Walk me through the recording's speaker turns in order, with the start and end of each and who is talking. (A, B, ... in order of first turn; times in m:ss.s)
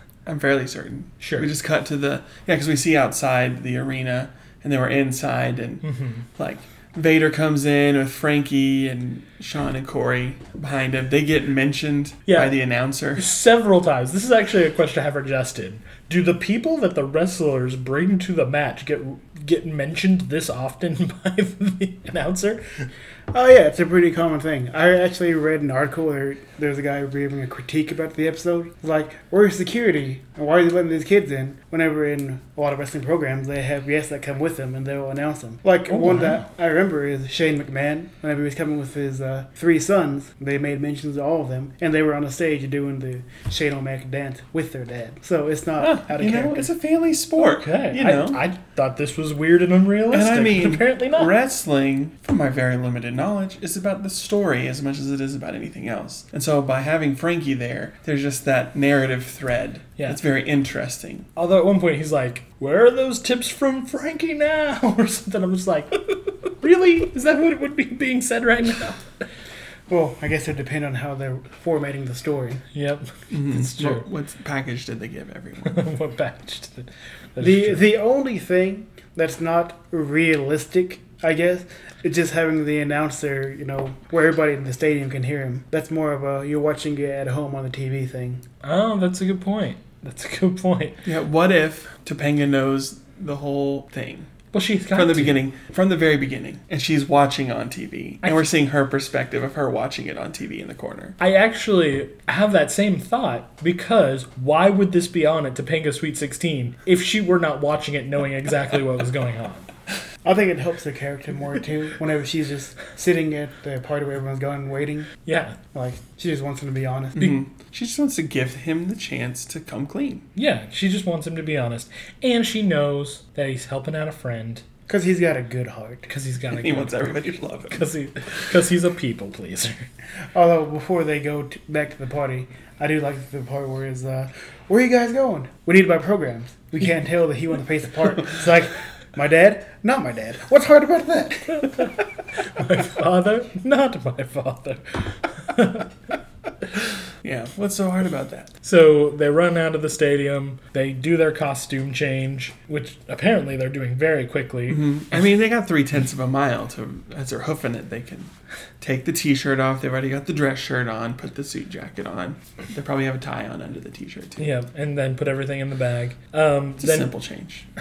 0:00.3-0:05.8 A
0:01.2-0:01.5 B
0:05.8-0:06.2 B
0:06.4-0:13.3 A
0:12.3-0:12.6 B
0:13.2-0:22.6 B
0:23.3-0:46.7 C
0:36.0-0:36.4 B
0:45.8-0:48.4 A
0:47.4-0:51.3 B
0:50.1-1:01.3 A
1:01.4-1:09.1 B
1:09.9-1:12.6 C
1:12.7-1:14.0 B
1:13.3-1:15.8 A
1:15.6-1:17.8 B
1:17.4-1:28.4 C
1:28.6-1:31.0 B
1:31.0-1:34.3 A
1:34.5-1:35.4 B
1:34.9-1:41.2 A
1:41.2-1:49.7 B
1:50.2-1:55.1 C
1:55.3-1:55.6 B
1:55.7-1:57.4 C
1:57.2-2:00.2 A
2:00.4-2:04.6 B
2:04.9-2:06.1 C
2:06.1-2:09.9 B
2:06.5-2:07.8 A
2:10.3-2:21.9 C
2:22.5-2:25.9 B
2:27.2-2:28.5 A
2:28.6-2:35.0 B
2:34.7-2:38.3 A
2:38.8-2:44.5 A
2:44.4-2:47.1 B
2:46.8-2:47.6 A